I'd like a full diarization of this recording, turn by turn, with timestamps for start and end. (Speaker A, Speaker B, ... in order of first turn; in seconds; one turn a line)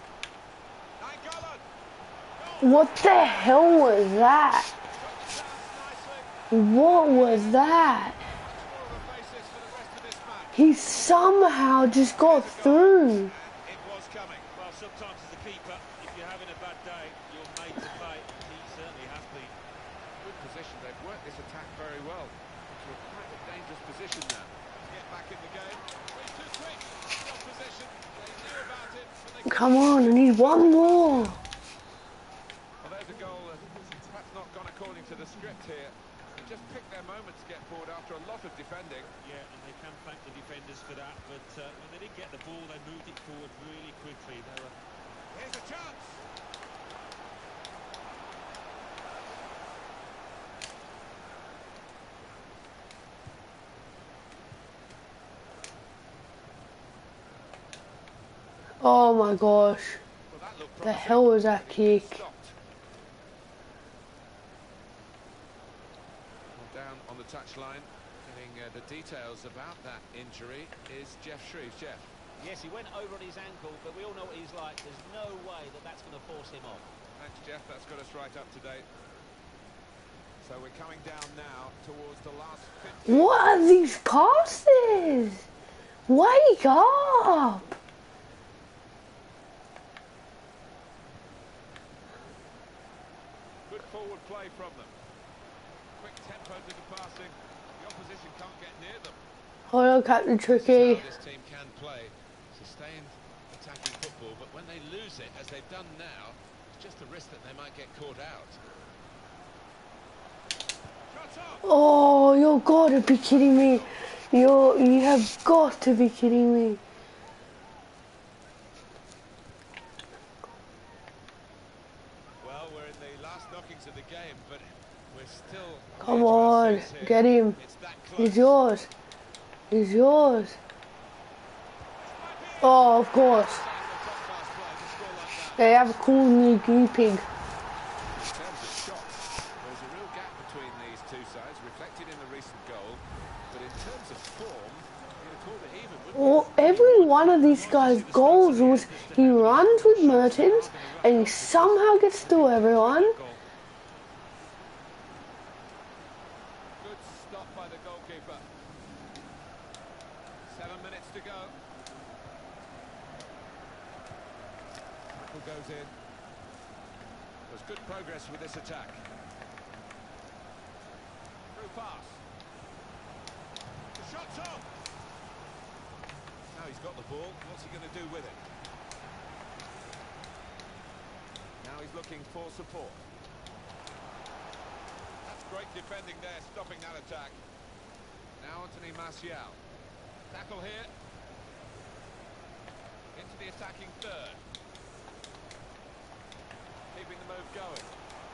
Speaker A: 1.0-1.6
Speaker A: 2.3-3.8
Speaker B: 2.6-4.7
Speaker A: 4.8-10.8
Speaker B: 6.5-8.2
Speaker B: 10.5-13.3
Speaker A: 12.2-14.5
Speaker C: 14.6-19.6
Speaker A: 20.2-31.4
Speaker B: 29.5-31.4
Speaker A: 32.8-39.1
Speaker C: 39.2-44.8
Speaker A: 45.3-46.3
Speaker B: 58.8-60.0
Speaker A: 60.3-62.6
Speaker B: 60.8-62.2
Speaker A: 66.5-72.1
Speaker D: 72.4-76.9
Speaker A: 77.2-78.9
Speaker A: 80.4-83.7
Speaker B: 83.1-85.5
Speaker B: 86.1-87.6
Speaker A: 93.7-95.0
Speaker A: 96.0-99.2
Speaker B: 99.7-101.0
Speaker A: 100.4-108.6
Speaker A: 111.1-111.7
Speaker B: 111.6-116.8
Speaker A: 113.3-114.1
Speaker A: 122.4-128.6
Speaker B: 126.0-127.6
Speaker B: 128.2-128.9
Speaker B: 129.7-130.6
Speaker A: 132.0-136.1
Speaker B: 132.6-133.6
Speaker B: 135.6-137.2
Speaker A: 138.1-146.9
Speaker B: 146.2-153.2
Speaker C: 146.6-150.7
Speaker A: 150.0-152.2
Speaker C: 151.8-153.4
Speaker A: 156.8-158.5
Speaker A: 160.5-161.6
Speaker A: 165.2-165.9
Speaker A: 167.5-169.0
Speaker A: 171.5-172.2
Speaker A: 173.9-174.7
Speaker A: 176.5-178.5
Speaker A: 181.6-183.0
Speaker A: 185.2-187.4
Speaker A: 188.4-189.6
Speaker A: 190.3-190.9
Speaker A: 193.1-194.4
Speaker A: 196.9-197.9